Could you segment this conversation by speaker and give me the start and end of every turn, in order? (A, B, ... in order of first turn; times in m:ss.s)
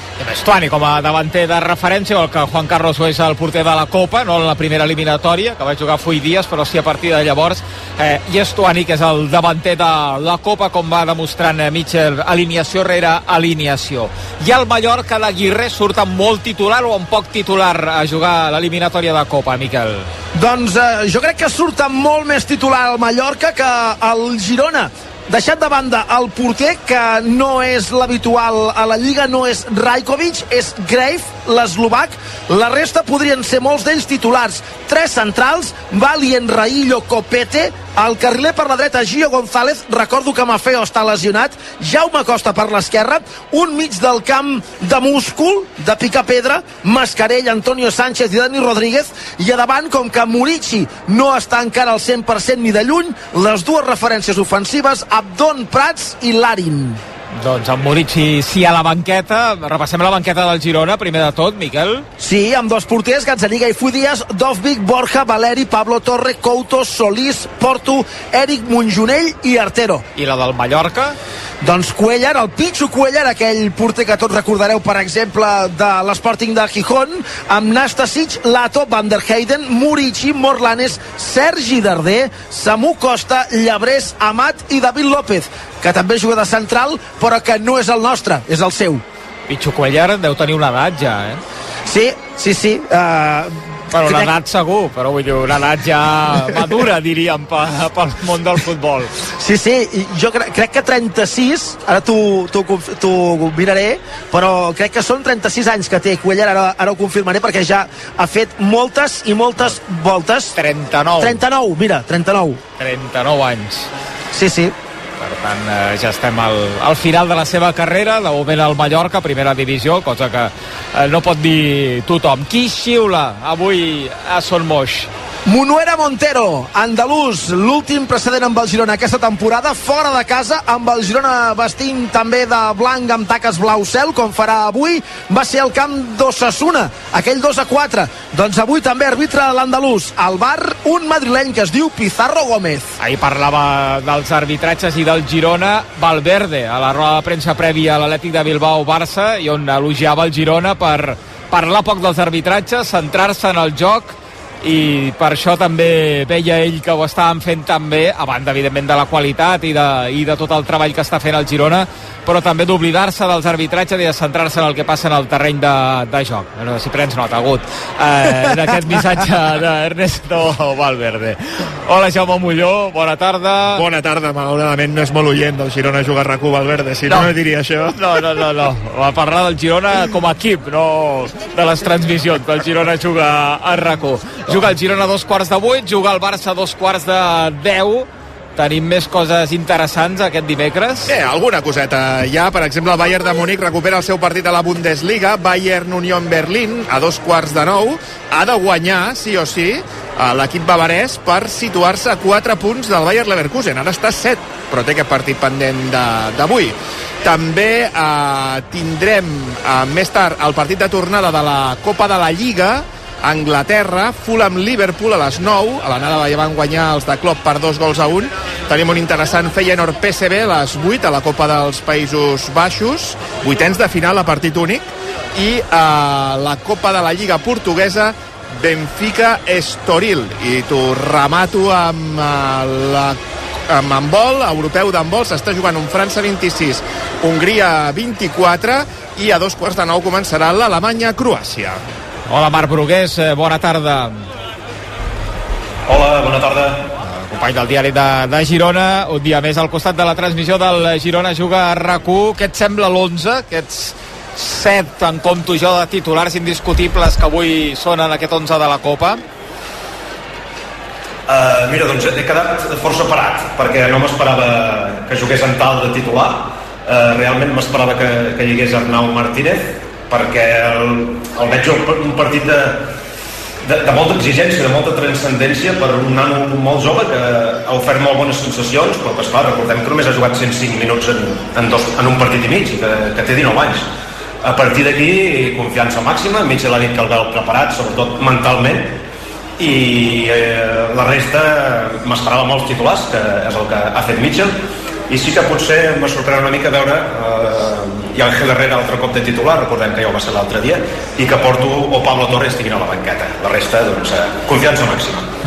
0:00.2-0:20.1 A
0:20.3-0:57.0 B
0:57.4-1:02.1 A
1:02.2-1:10.0 B
1:10.2-1:11.2 A
1:11.6-1:29.0 B
1:29.5-1:31.4 A
1:31.9-1:34.3 B
1:33.9-1:39.1 A
1:39.4-1:50.6 B
1:50.6-1:51.4 A
1:51.2-1:52.6 B
1:52.8-1:53.9 A
1:54.3-1:54.8 B
1:55.2-2:05.1 A
2:05.5-2:23.0 B
2:23.0-2:53.8 A
2:53.7-2:58.0 C
2:57.9-3:11.1 A
3:11.1-4:01.8 C
4:02.3-4:04.2 A
4:05.9-4:06.9 D
4:07.0-4:19.2 A
4:21.3-4:32.9 D
4:33.7-4:43.9 D
4:44.4-4:49.0 D
4:49.6-4:54.6 D
4:55.1-5:05.3 D